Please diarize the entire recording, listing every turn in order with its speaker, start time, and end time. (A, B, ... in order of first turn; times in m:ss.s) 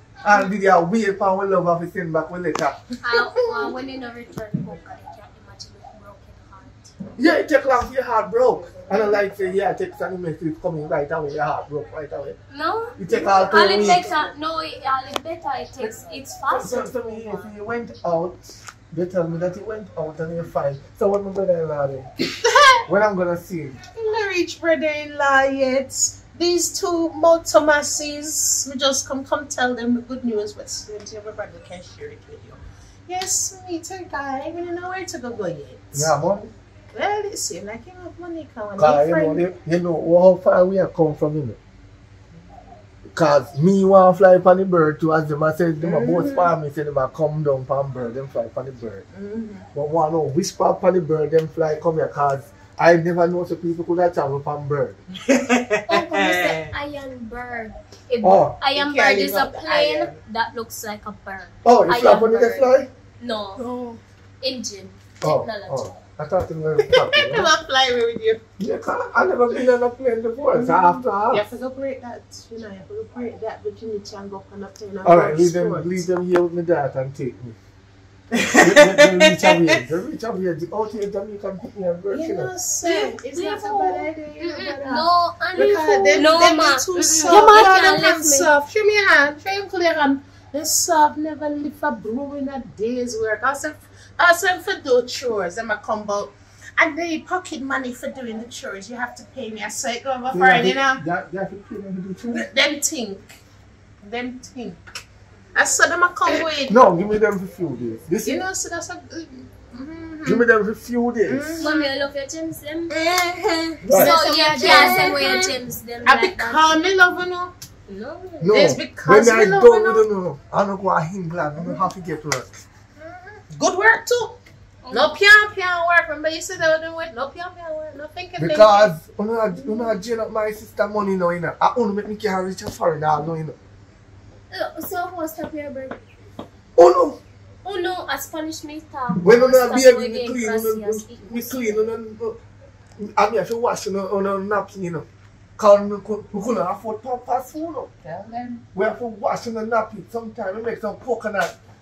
0:00.2-0:02.8 A
0:03.0-0:07.0 B
0:03.1-0:03.7 C
0:07.2-0:12.4 A
0:12.5-0:17.5 B
0:13.0-0:14.1 A
0:15.8-0:22.1 A
0:22.4-0:22.8 C
0:22.9-0:23.8 A
0:24.0-0:36.1 C
0:35.9-0:36.5 A
0:36.9-0:39.4 C
0:38.8-0:41.6 A
0:43.1-0:49.0 A
0:45.8-0:46.5 C
0:49.1-0:49.7 C
0:49.7-0:55.0 A
0:55.1-0:56.8 C
0:55.9-1:03.6 B
0:58.2-0:58.6 A
0:58.7-1:00.2 C
1:01.6-1:02.9 A
1:03.6-1:04.0 D
1:04.4-1:06.0 B
1:05.2-1:07.5 A
1:06.9-1:08.4 C
1:08.6-1:11.5 A
1:10.5-1:16.0 C
1:15.0-1:17.6 A
1:18.3-1:19.8 C
1:18.6-1:22.5 A
1:22.1-1:41.0 C
1:22.8-1:28.5 B
1:27.3-1:27.6 D
1:40.3-1:42.5 A
1:42.3-1:43.3 C
1:44.0-1:44.8 C
1:45.6-1:46.8 C
1:46.7-1:48.5 A
1:48.2-1:50.5 C
1:50.2-1:51.6 A
1:51.3-1:51.9 C
1:51.6-1:53.3 B
1:52.9-1:53.8 C
1:53.8-1:56.8 B
1:53.8-1:54.2 A
1:53.9-1:55.5 D
1:54.6-1:55.5 C
1:56.0-1:57.5 C
1:57.9-1:58.6 B
1:58.4-2:02.7 A
1:58.5-2:00.0 C
2:01.6-2:01.8 C
2:03.0-2:04.4 C
2:04.8-2:05.2 B
2:04.9-2:08.9 C
2:08.4-2:13.6 A
2:14.5-2:16.0 B
2:16.8-2:17.2 A
2:17.6-2:21.9 B
2:19.1-2:22.4 A
2:23.0-2:25.1 A
2:25.6-2:27.9 A
2:28.0-2:28.6 C
2:28.8-2:31.6 A